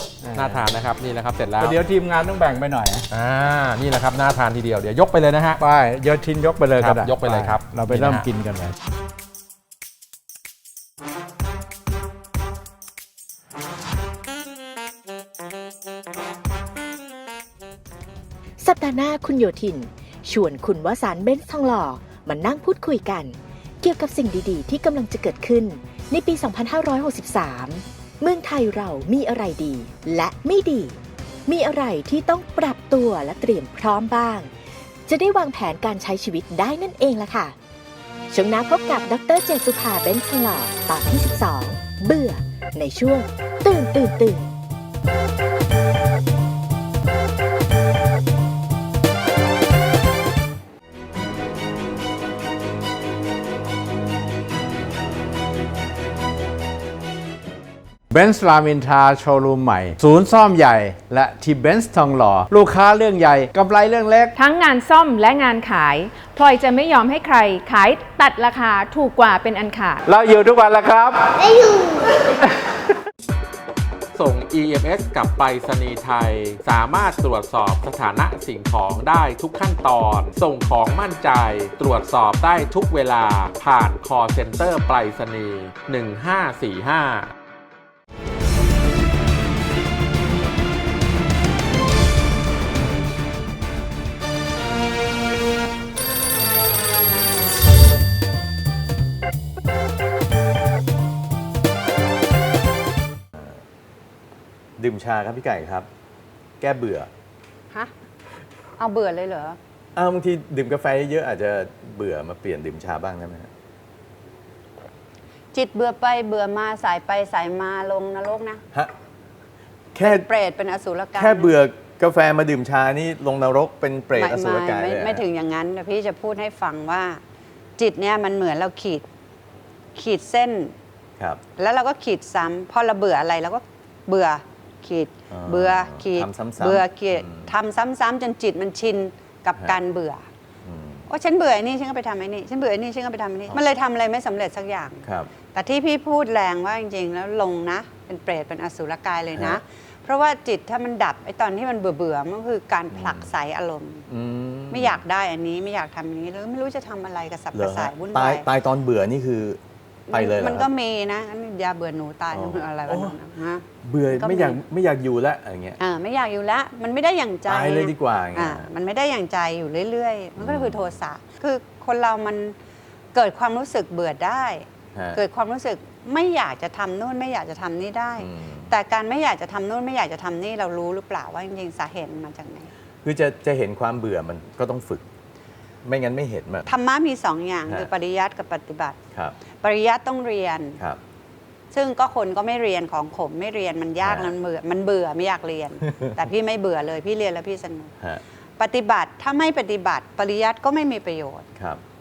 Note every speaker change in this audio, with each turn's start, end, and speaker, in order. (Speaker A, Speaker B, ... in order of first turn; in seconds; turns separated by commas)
Speaker A: 0.2-0.7, Speaker B: 0.3-1.8, Speaker A: 1.6-3.1, Speaker B: 3.1-5.6, Speaker A: 5.6-8.8, Speaker B: 6.8-8.3, Speaker C: 18.6-34.5, Speaker C: 35.1-37.5, Speaker C: 38.3-44.5, Speaker A: 58.1-64.3, Speaker D: 64.4-70.0, Speaker A: 70.0-71.5, Speaker B: 74.2-87.3, Speaker E: 103.4-103.6, Speaker E: 104.8-105.9, Speaker E: 106.6-107.1, Speaker F: 108.8-109.6, Speaker E: 110.0-113.5, Speaker F: 115.5-118.6, Speaker E: 120.0-120.3, Speaker F: 120.0-121.5, Speaker E: 121.2-125.2, Speaker F: 124.2-127.2, Speaker F: 127.8-129.1, Speaker F: 129.9-130.8, Speaker F: 131.6-140.2, Speaker E: 135.3-137.5, Speaker E: 140.7-141.1, Speaker F: 141.1-154.1, Speaker E: 145.1-145.3, Speaker E: 149.3-149.6, Speaker E: 152.9-153.3, Speaker E: 154.1-155.0, Speaker F: 154.7-158.5, Speaker E: 157.5-159.6, Speaker F: 160.1-164.6, Speaker E: 160.1-160.7, Speaker E: 162.3-163.2, Speaker E: 163.8-165.8, Speaker F: 165.8-172.6, Speaker E: 167.5-168.7, Speaker E: 170.4-171.0, Speaker F: 173.1-182.7, Speaker E: 174.9-175.2, Speaker E: 178.2-178.7, Speaker E: 183.0-185.1, Speaker E: 185.8-186.7, Speaker F: 186.7-189.0, Speaker F: 189.6-190.8, Speaker F: 191.7-197.9, Speaker E: 194.0-194.3, Speaker E: 195.9-196.1, Speaker F: 198.6-201.5, Speaker E: 201.6-201.8